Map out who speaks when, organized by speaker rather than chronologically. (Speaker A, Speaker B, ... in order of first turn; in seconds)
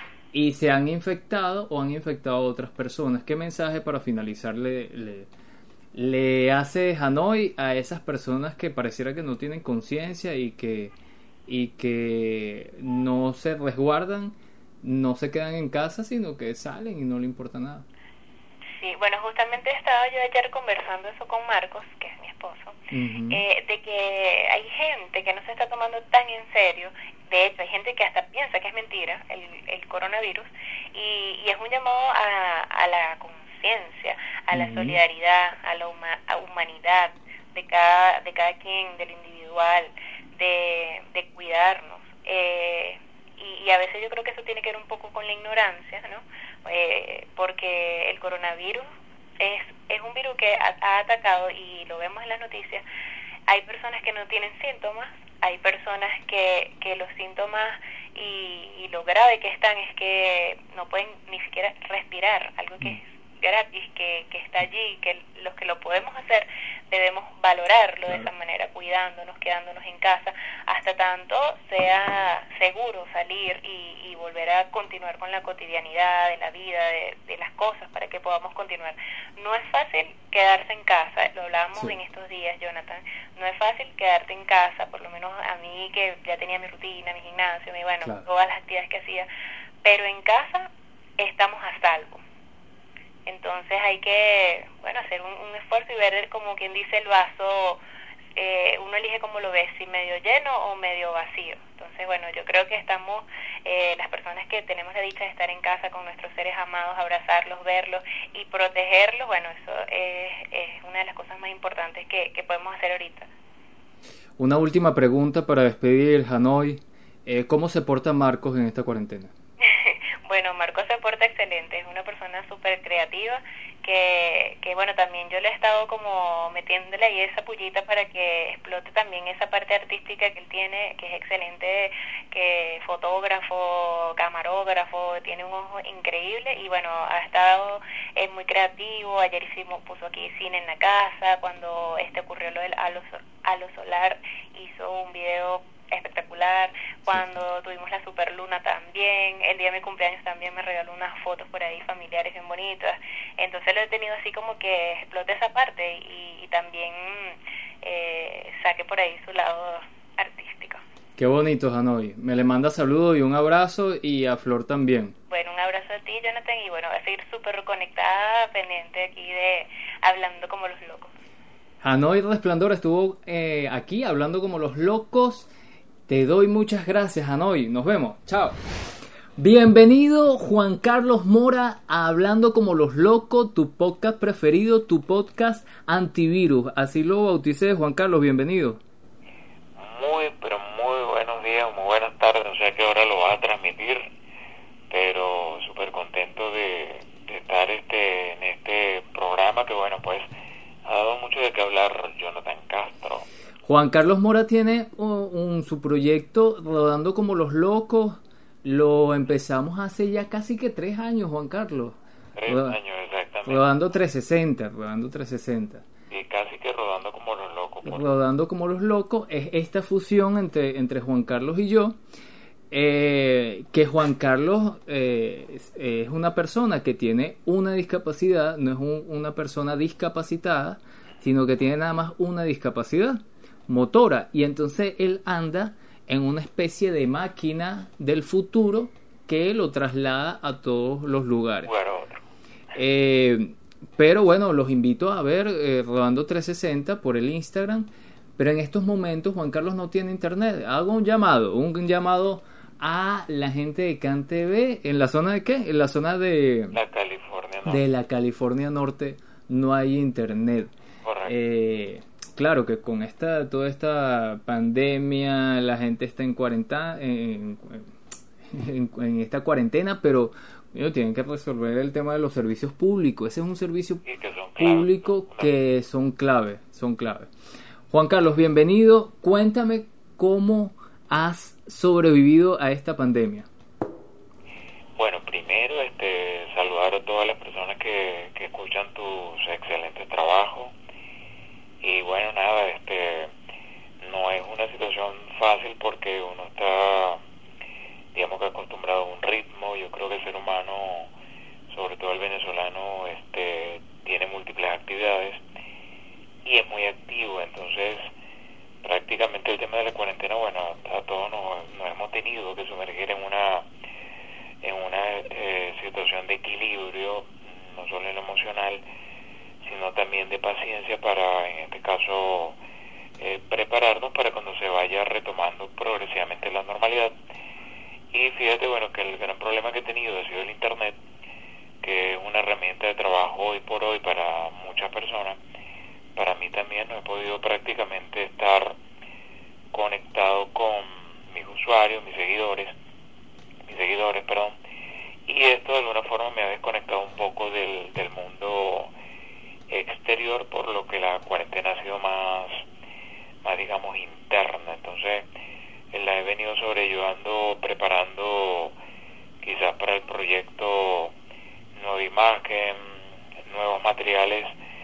Speaker A: 0.3-5.3, 5.9-10.9, 11.5-17.9, 22.9-23.4, 34.5-35.0, 114.4-119.3, 161.2-165.2, 171.8-175.5, 176.1-178.6, 179.4-188.8, 203.7-212.8, 213.5-215.8, 217.8-222.0, 222.7-241.7, 242.8-256.8, 257.6-260.7, 261.3-267.9, 268.5-274.0, 274.6-277.3, 277.9-283.5
Speaker B: 18.8-22.8, 23.3-48.9, 49.4-52.8, 53.5-89.3, 89.8-92.2, 93.3-97.8, 98.3-113.3, 119.6-160.8, 165.3-171.1
Speaker C: 189.8-194.1, 194.9-200.3, 200.8-203.3, 212.4-213.7, 216.1-218.1, 241.7-242.2, 256.7-257.8, 261.0-261.3, 274.1-275.5, 285.0-290.7, 291.8-293.3, 294.0-297.2, 298.1-301.1, 301.7-305.4, 306.4-308.1, 308.8-313.7, 314.6-318.8, 319.6-322.6, 323.2-327.1, 328.1-331.0, 331.8-335.4, 336.2-338.8, 339.7-342.7, 343.7-344.6, 345.3-348.9, 349.7-352.6, 353.4-355.3, 355.9-358.8, 359.4-361.1, 361.8-362.9, 363.4-364.5